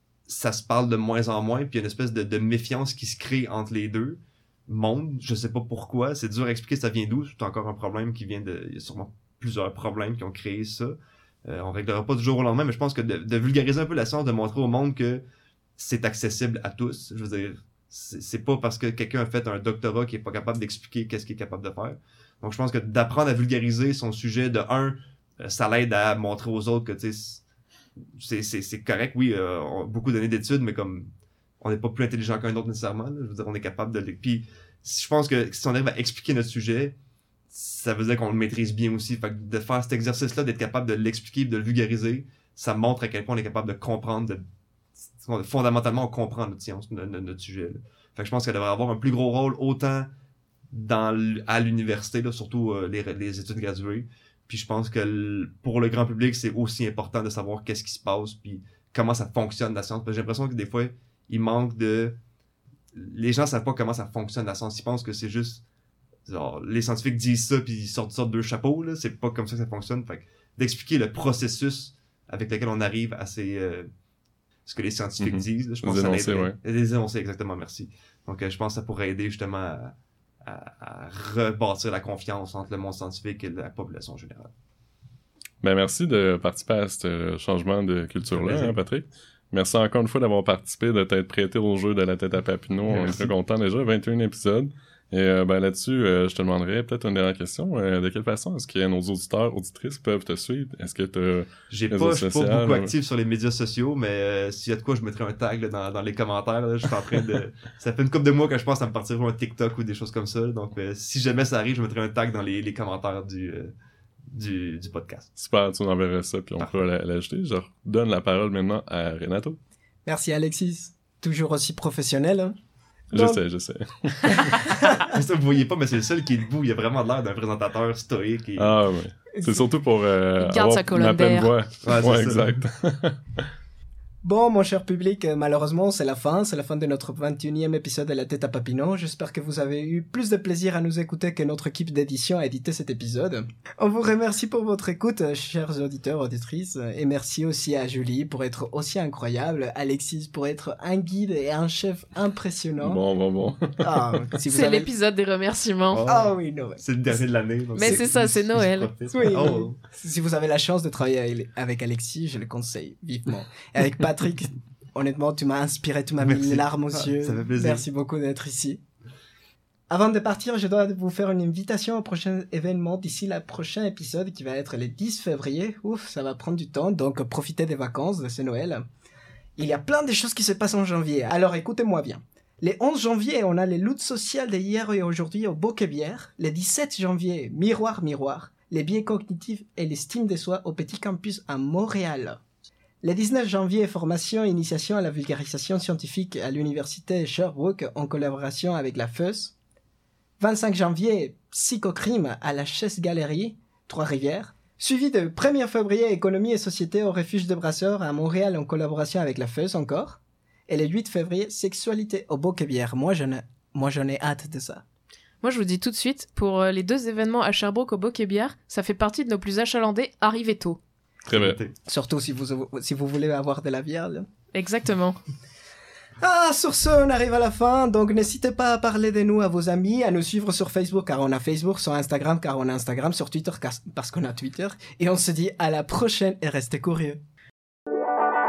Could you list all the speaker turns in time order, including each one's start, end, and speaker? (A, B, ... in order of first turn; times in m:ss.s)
0:00.3-0:15.2 A
0:15.8-0:27.4 A
0:28.2-0:31.1 A
0:31.6-0:37.0 A
0:37.5-0:44.4 A
0:45.2-0:50.1 A
0:50.7-1:02.1 A
1:02.9-1:05.6 A
1:06.3-1:13.9 A
1:14.6-1:24.5 A
1:15.2-1:16.6 B
1:25.6-1:42.9 B
1:28.3-1:28.8 A
1:32.9-1:33.3 A
1:41.7-1:53.7 A
1:54.3-1:55.3 A
1:55.4-1:59.6 B
2:00.1-2:02.6 C
2:03.1-2:03.4 C
2:03.1-2:04.6 B
2:04.5-2:05.1 C
2:04.9-2:08.7 A
2:08.6-2:13.5 B
2:09.4-2:09.7 C
2:10.4-2:11.5 D
2:11.8-2:12.6 A
2:14.2-2:33.0 C
2:32.8-2:34.3 B
2:33.8-2:34.9 C
2:34.5-2:36.0 D
2:35.9-2:39.8 A
2:36.1-2:36.8 C
2:37.8-2:38.9 D
2:39.1-2:48.8 C
2:46.2-2:47.8 A
2:49.9-2:58.8 C
2:59.6-3:12.4 C
3:13.0-3:19.5 C
3:20.4-3:34.8 C
3:35.4-3:40.8 D
3:41.3-3:41.7 A
3:41.3-3:41.6 B
3:41.9-3:44.3 C
3:44.5-3:45.2 D
3:46.2-3:57.2 C